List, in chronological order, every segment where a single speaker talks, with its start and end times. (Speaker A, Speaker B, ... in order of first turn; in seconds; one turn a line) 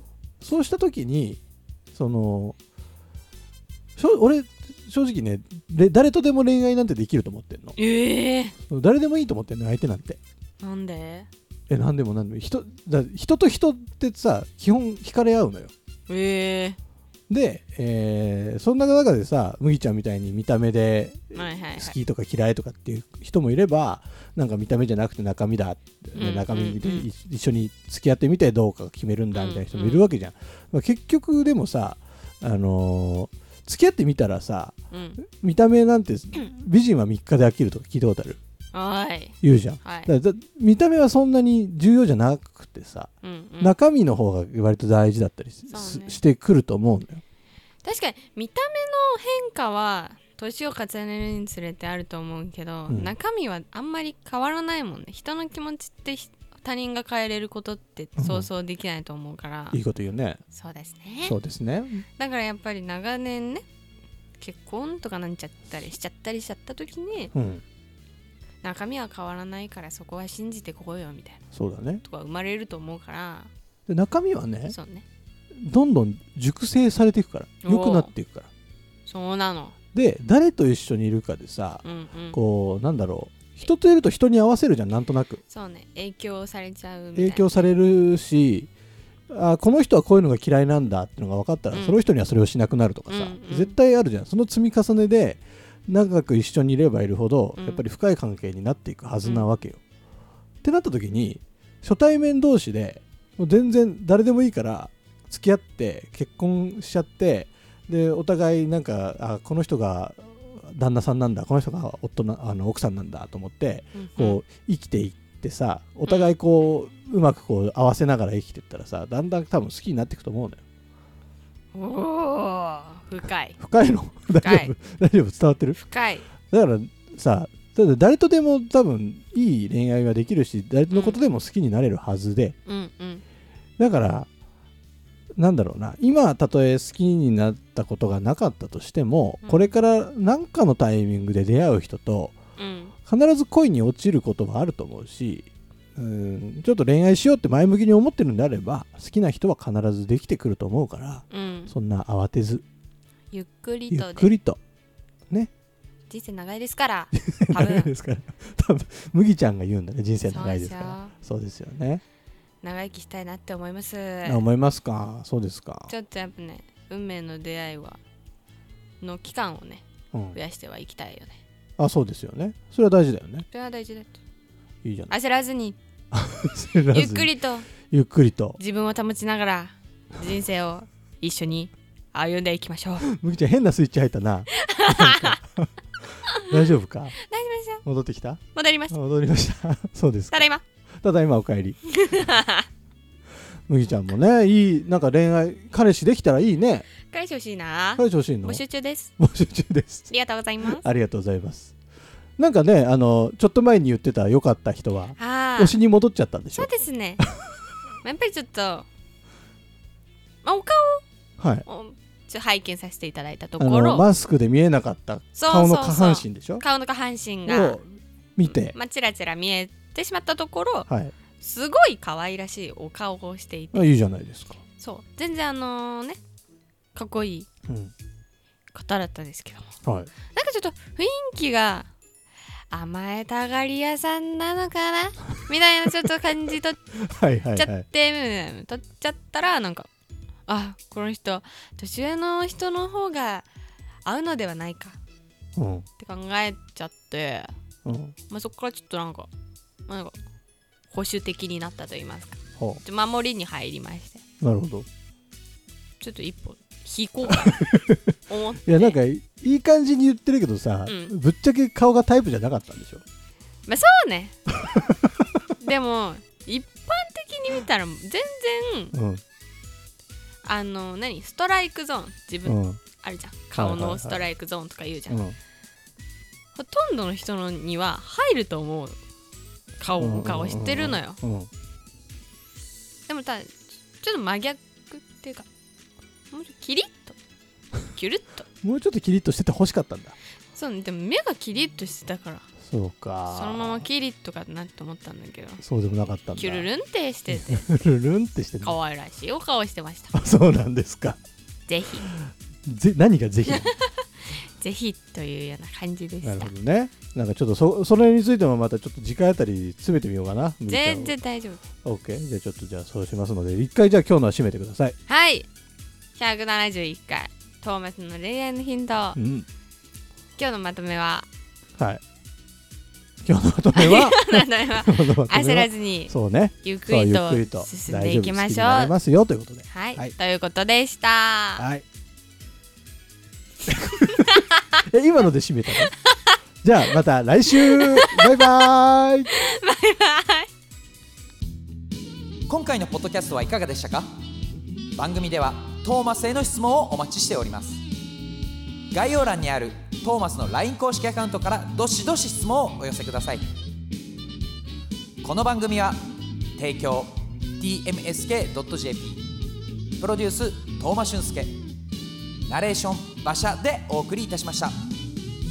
Speaker A: 0.4-1.4
Speaker A: 1.9-2.5
Speaker A: 4.0-7.8
Speaker B: 7.8-8.6
Speaker A: 8.6-10.2
Speaker B: 10.6-11.3
Speaker A: 11.7-15.7
Speaker B: 16.1-16.8
Speaker A: 17.3-38.4
Speaker B: 21.3-21.9
Speaker B: 26.1-27.1
Speaker B: 29.3-30.1
Speaker B: 34.9-35.2
Speaker B: 38.7-40.1
Speaker A: 39.4-47.2
Speaker B: 43.2-43.8
Speaker B: 45.7-46.2
Speaker B: 47.8-59.8
Speaker A: 52.9-53.1
Speaker A: 58.2-58.5
Speaker A: 59.7-60.4
Speaker B: 60.5-61.4
Speaker A: 61.2-62.0
Speaker B: 62.2-63.6
Speaker B: 64.4-67.3
Speaker A: 67.3-67.6
Speaker B: 68.6-71.4
Speaker A: 71.5-72.0
Speaker B: 72.0-73.5
Speaker A: 73.9-74.8
Speaker B: 74.7-75.0
Speaker A: 75.5-78.5
Speaker B: 77.6-78.1
Speaker B: 79.1-79.7
Speaker A: 79.9-85.4
Speaker B: 81.8-82.4
Speaker B: 85.5-87.7
Speaker A: 87.1-88.7
Speaker A: 89.3-99.8
Speaker B: 91.7-92.0
Speaker B: 93.1-93.8
Speaker B: 97.6-97.8
Speaker A: 100.6-120.6
Speaker B: 113.9-114.4
Speaker B: 116.0-116.3
Speaker B: 121.7-123.6
Speaker A: 123.6-125.8
Speaker B: 124.3-124.7
Speaker B: 125.8-126.3
Speaker A: 126.5-132.6
Speaker B: 130.9-131.2
Speaker B: 132.7-133.2
Speaker A: 133.8-134.3
Speaker A: 135.4-142.4
Speaker B: 139.4-139.8
Speaker B: 142.6-142.9
Speaker A: 143.1-152.6
Speaker B: 151.3-151.7
Speaker B: 153.3-154.3
Speaker A: 153.9-154.6
Speaker B: 156.1-157.9
Speaker A: 157.1-162.0
Speaker B: 160.2-161.1
Speaker B: 162.6-164.4
Speaker A: 164.2-165.9
Speaker B: 165.9-168.0
Speaker B: 169.0-171.4
Speaker A: 170.1-170.4
Speaker A: 171.8-173.5
Speaker B: 173.5-174.2
Speaker A: 174.8-175.1
Speaker B: 175.1-175.8
Speaker A: 176.1-177.3
Speaker B: 176.9-177.7
Speaker A: 177.8-178.6
Speaker B: 178.6-183.1
Speaker A: 183.0-185.7
Speaker B: 184.5-185.4
Speaker B: 186.3-186.6
Speaker A: 186.4-187.2
Speaker B: 187.2-187.8
Speaker A: 187.8-190.5
Speaker B: 188.5-188.9
Speaker B: 190.3-190.6
Speaker A: 191.0-191.8
Speaker B: 191.9-192.7
Speaker A: 193.7-196.9
Speaker B: 197.1-199.1
Speaker A: 198.0-198.6
Speaker A: 199.2-200.1
Speaker B: 200.1-200.8
Speaker A: 200.7-201.7
Speaker A: 202.4-207.4
Speaker B: 205.2-205.8
Speaker B: 206.5-207.2
Speaker B: 208.0-208.8
Speaker B: 210.4-211.0
Speaker A: 211.4-211.7
Speaker B: 211.7-214.1
Speaker A: 213.6-216.6
Speaker B: 215.3-217.8
Speaker A: 217.5-218.8
Speaker B: 218.5-220.9
Speaker A: 220.9-221.1
Speaker B: 221.4-223.9
Speaker A: 223.7-224.6
Speaker B: 224.8-226.2
Speaker B: 226.9-227.5
Speaker A: 227.7-227.9
Speaker B: 228.7-229.7
Speaker A: 229.8-230.1
Speaker B: 230.3-231.9
Speaker B: 232.7-236.8
Speaker A: 236.9-237.8
Speaker B: 237.6-239.9
Speaker B: 240.5-243.4
Speaker B: 244.0-245.0
Speaker A: 245.6-245.8
Speaker B: 246.0-247.5
Speaker A: 247.8-248.2
Speaker B: 248.3-249.3
Speaker B: 249.9-250.1
Speaker B: 250.9-254.2
Speaker A: 254.4-254.9
Speaker B: 256.0-257.7
Speaker A: 257.3-263.0
Speaker B: 258.3-259.0
Speaker B: 260.9-261.1
Speaker B: 263.7-264.4
Speaker A: 264.5-265.1
Speaker B: 265.6-268.9
Speaker A: 268.9-269.2
Speaker B: 270.4-275.2
Speaker A: 272.4-272.8
Speaker A: 273.5-274.2
Speaker A: 275.1-275.4
Speaker B: 276.5-279.0
Speaker B: 279.8-281.2
Speaker A: 280.0-281.5
Speaker B: 283.1-285.4
Speaker B: 286.3-287.2
Speaker B: 287.9-288.4
Speaker A: 288.6-290.1
Speaker B: 290.5-292.5
Speaker A: 292.6-293.9
Speaker B: 293.3-295.6
Speaker A: 295.6-296.7
Speaker B: 296.4-297.7
Speaker A: 297.3-298.8
Speaker B: 298.6-300.2
Speaker A: 300.1-301.2
Speaker B: 301.7-302.1
Speaker A: 302.1-303.7
Speaker B: 303.5-306.5
Speaker A: 306.2-311.1
Speaker B: 310.7-311.6
Speaker A: 311.8-314.9
Speaker B: 315.1-315.5
Speaker B: 316.1-319.2
Speaker A: 319.1-319.4
Speaker B: 320.4-321.3
Speaker A: 323.2-330.1
Speaker B: 323.7-328.9
Speaker B: 329.7-331.7
Speaker A: 331.6-331.8
Speaker A: 333.7-335.9
Speaker A: 336.6-339.3
Speaker B: 337.6-338.7
Speaker B: 339.3-340.5
Speaker C: 342.5-344.1
Speaker C: 344.9-347.8
Speaker C: 348.9-353.4
Speaker C: 355.2-356.0
Speaker C: 356.6-359.2
Speaker C: 360.0-361.6
Speaker C: 362.5-364.7